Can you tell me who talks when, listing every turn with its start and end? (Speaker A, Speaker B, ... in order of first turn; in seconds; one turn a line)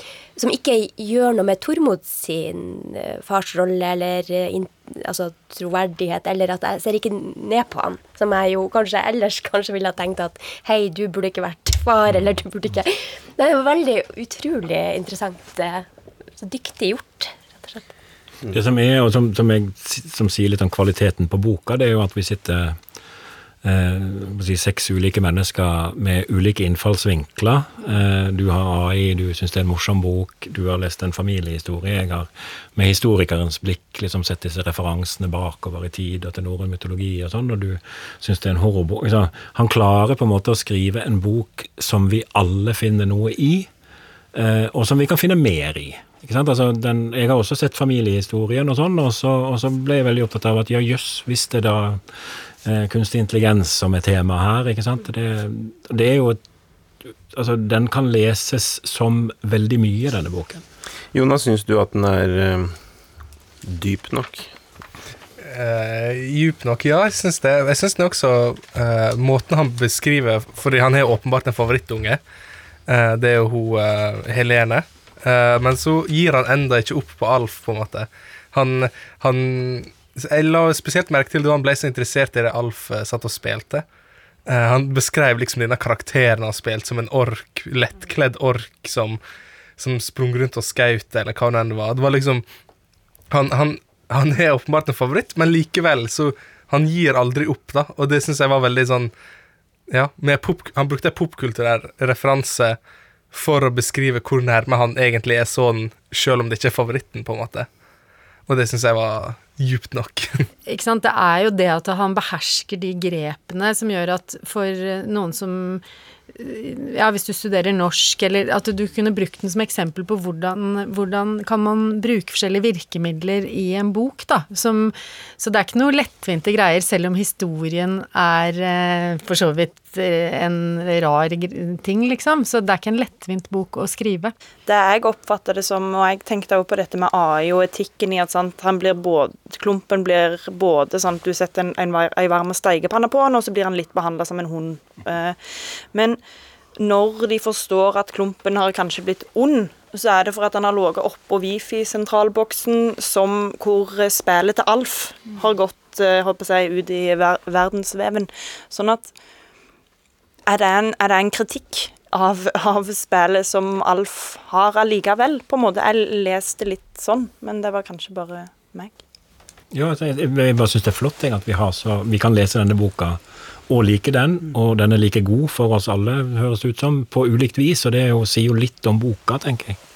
Speaker A: 0.4-15.9
Speaker A: 16.4-17.9
Speaker B: 18.5-22.8
Speaker B: 23.6-43.7
Speaker B: 44.3-52.0
Speaker B: 52.6-56.4
Speaker B: 57.0-60.6
Speaker C: 61.1-62.8
Speaker C: 63.6-64.5
Speaker D: 65.4-72.2
Speaker D: 72.9-83.8
Speaker D: 84.5-89.2
Speaker D: 89.8-92.4
Speaker D: 93.3-99.1
Speaker D: 99.9-102.8
Speaker D: 103.3-107.7
Speaker D: 108.5-110.5
Speaker E: 110.7-134.3
Speaker F: 134.7-146.2
Speaker F: 146.8-159.1
Speaker F: 160.4-169.0
Speaker B: 169.7-179.8